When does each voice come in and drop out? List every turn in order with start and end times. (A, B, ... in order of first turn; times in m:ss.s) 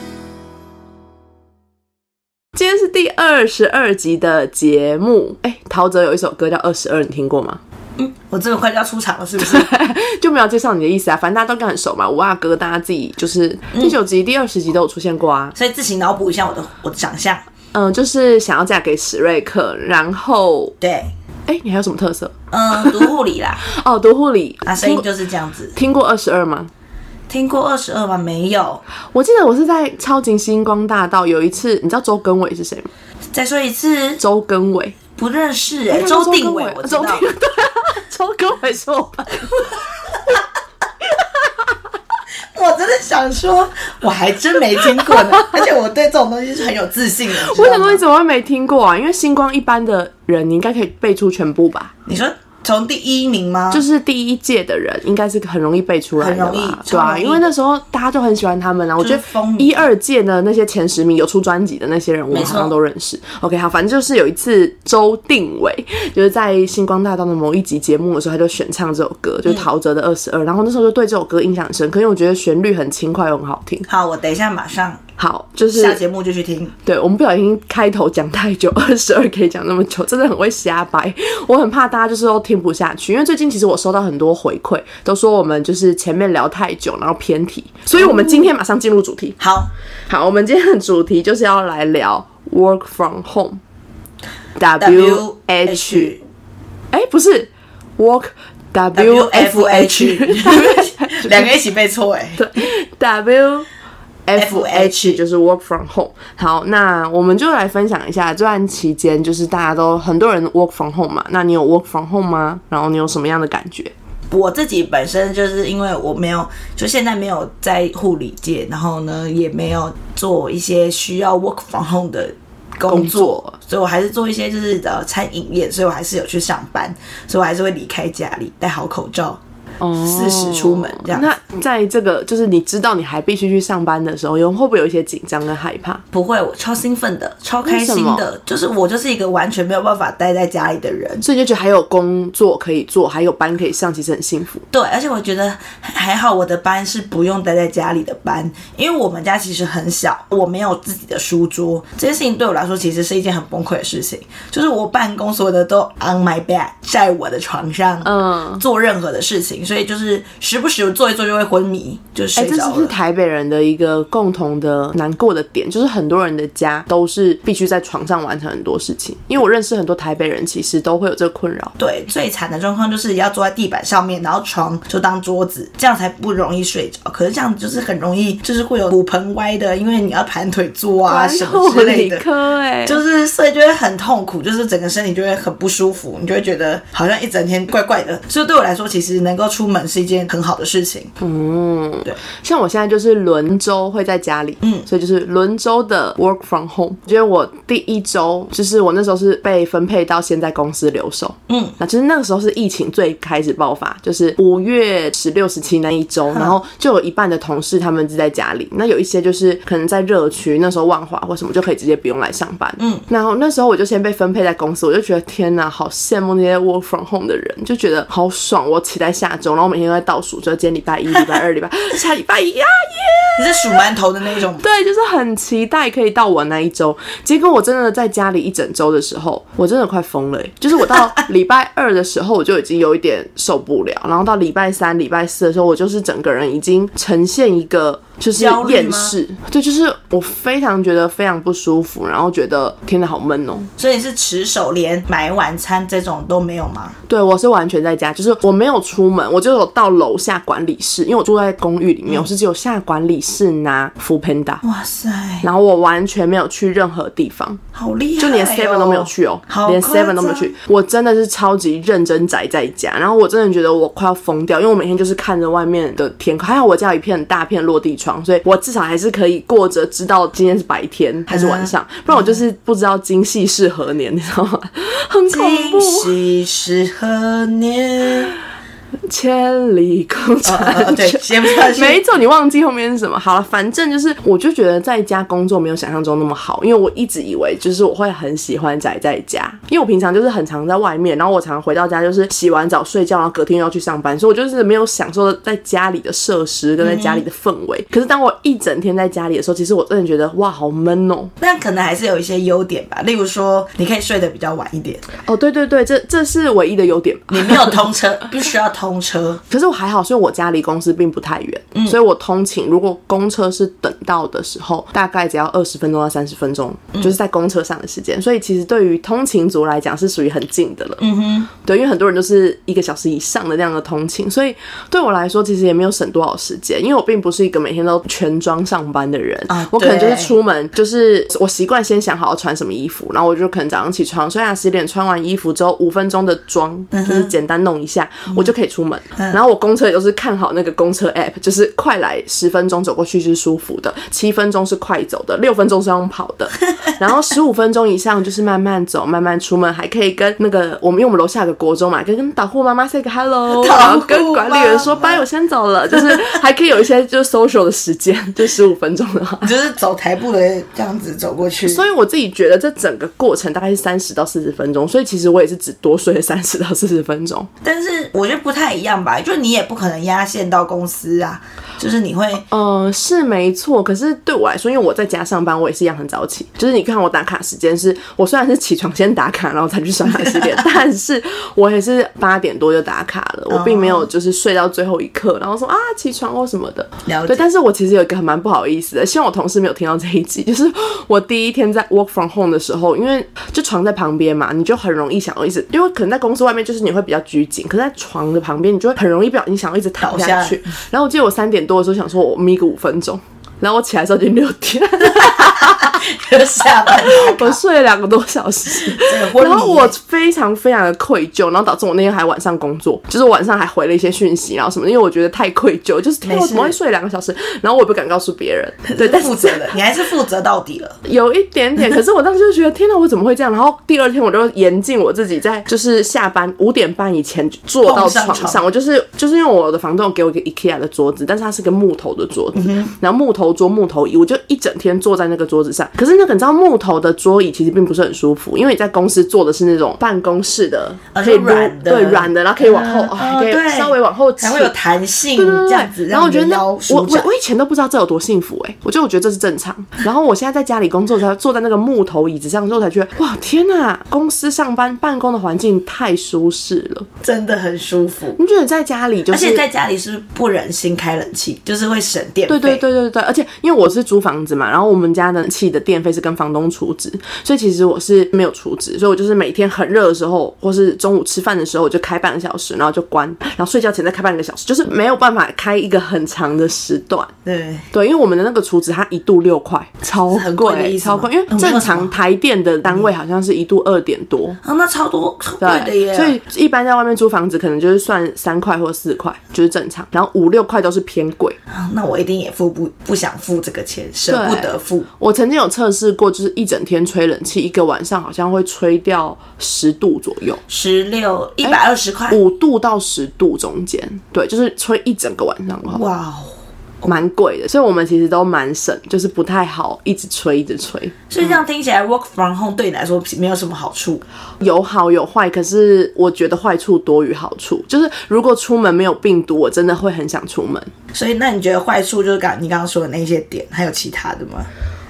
0:02.6-0:07.6 A
0:08.0-0:09.7 B
0:09.4-0:15.5 A
0:15.6-0:17.4 B
0:17.7-0:20.8 A
0:20.8-0:21.1 B
0:21.5-0:23.1 A
0:22.5-0:23.6 B
0:23.6-0:25.1 A
0:24.6-0:25.8 B
0:25.8-0:26.7 A
0:27.3-0:28.8 B
0:29.1-0:32.9 A
0:33.3-0:34.2 B
0:34.2-0:35.0 A
0:35.2-0:37.3 B
0:35.9-0:39.8 A
0:42.5-0:48.0 B
0:47.3-0:51.9 A
0:52.1-0:53.8 B
0:53.7-1:13.9 A
0:56.2-0:57.5 B
0:59.0-0:59.8 B
1:02.3-1:02.7 B
1:13.9-1:15.0 B
1:15.2-1:16.0 A
1:15.7-1:16.7 B
1:16.8-1:29.4 A
1:27.9-1:28.5 B
1:29.4-1:29.7 B
1:30.1-1:33.6 A
1:34.6-1:36.1 A
1:34.8-1:36.2 B
1:36.9-1:41.5 A
1:39.0-1:42.5 B
1:42.4-1:43.7 A
1:44.3-1:53.9 A
1:44.4-1:45.2 B
1:54.3-2:09.4 B
2:02.9-2:03.6 A
2:09.8-2:16.0 A
2:10.0-2:11.3 B
2:16.1-2:21.2 B
2:17.6-2:18.3 A
2:21.2-2:24.6 A
2:24.7-2:42.9 B
2:38.0-2:38.6 A
2:42.4-2:51.7 A
2:51.8-3:02.2 B
3:01.1-3:03.0 A
3:02.8-3:11.1 B
3:11.2-3:43.9 A
3:21.5-3:21.8 B
3:32.8-3:33.0 B
3:43.4-3:44.6 B
3:44.6-4:03.7 A
3:58.4-3:59.2 B
4:03.8-4:07.0 B
4:07.1-4:14.6 A
4:14.6-4:15.5 B
4:15.4-4:17.6 A
4:17.7-4:20.5 B
4:18.2-4:36.2 A
4:31.3-4:32.4 B
4:35.3-4:38.3 B
4:39.1-5:01.3 A
4:40.4-4:42.0 B
4:56.8-4:57.2 B
5:01.4-5:05.0 B
5:05.2-5:07.8 A
5:07.3-5:09.4 B
5:09.5-5:21.0 A
5:21.0-5:21.5 B
5:21.6-5:59.5 A
5:29.5-5:30.3 B
5:36.9-5:37.3 B
5:53.5-5:55.2 B
5:59.4-6:01.9 B
6:01.6-6:07.5 A
6:07.6-6:12.5 B
6:12.5-6:46.1 A
6:20.1-6:20.6 B
6:23.5-6:24.1 B
6:27.0-6:27.4 B
6:40.0-6:40.7 B
6:45.1-6:47.6 B
6:46.8-6:59.8 A
6:48.7-6:50.0 B
6:56.2-6:56.8 B
6:58.9-7:01.0 B
7:01.0-7:24.7 A
7:07.8-7:08.6 B
7:12.6-7:12.9 B
7:21.1-7:27.3 B
7:25.4-7:37.1 A
7:37.2-7:38.4 B
7:38.4-7:39.6 A
7:39.3-7:42.8 B
7:42.5-7:57.3 A
7:57.4-7:57.9 B
7:57.9-8:04.6 A
8:00.3-8:02.1 B
8:02.8-8:03.1 B
8:04.6-8:06.4 B
8:05.6-8:11.6 A
8:11.7-8:15.1 B
8:14.3-8:20.6 A
8:20.7-8:22.4 B
8:22.3-8:26.0 A
8:25.9-8:27.1 B
8:27.0-8:31.2 A
8:31.3-8:34.2 B
8:34.6-8:40.9 A
8:41.1-8:44.7 B